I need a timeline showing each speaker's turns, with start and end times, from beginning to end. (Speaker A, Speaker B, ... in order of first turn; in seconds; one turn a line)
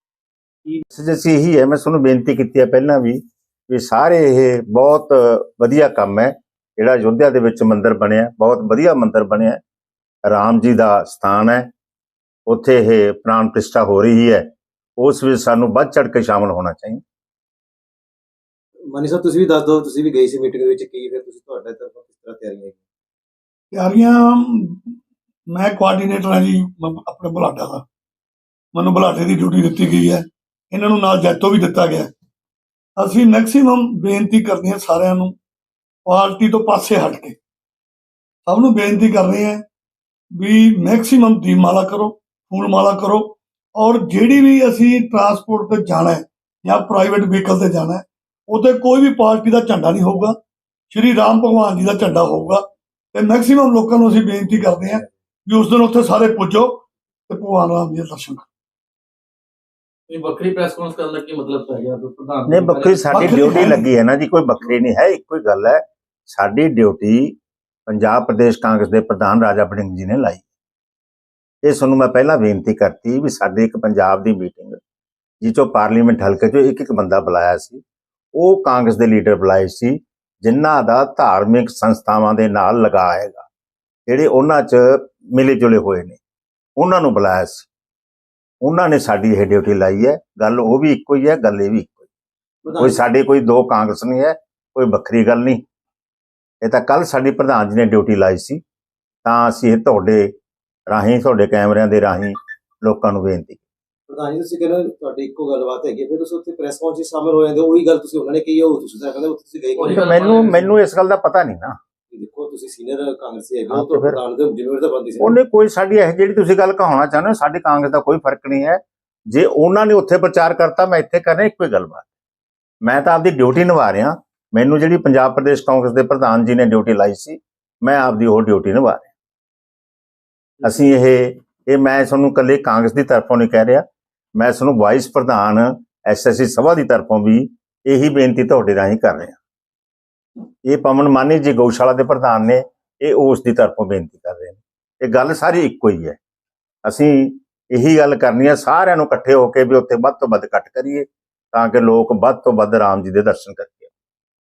Speaker A: 0.9-9.6
Speaker A: 10.3-11.7
Speaker A: 12.5-17.0
Speaker B: 18.9-22.8
Speaker C: 23.7-24.9
Speaker C: 25.5-27.9
Speaker C: 28.7-32.1
Speaker C: 33.0-35.4
Speaker C: 36.1-37.4
Speaker C: 38.5-39.6
Speaker C: 40.4-50.4
Speaker C: 50.9-58.5
Speaker D: 60.1-63.4
Speaker A: 62.5-67.4
Speaker C: 63.1-63.9
Speaker A: 67.9-70.5
Speaker A: 71.6-74.8
Speaker A: 75.4-77.8
Speaker A: 78.3-83.5
Speaker A: 84.1-86.2
Speaker A: 86.8-87.7
Speaker A: 88.6-92.1
Speaker A: 92.8-95.6
Speaker A: 96.6-98.6
Speaker A: 99.2-100.3
Speaker A: 100.9-103.6
Speaker B: 104.1-110.4
Speaker D: 109.8-110.7
Speaker A: 110.4-111.8
Speaker B: 112.1-115.4
Speaker A: 113.7-114.2
Speaker A: 115.2-122.1
Speaker A: 122.8-129.1
Speaker A: 130.6-139.4
Speaker A: 140.6-146.2
Speaker A: 146.8-153.9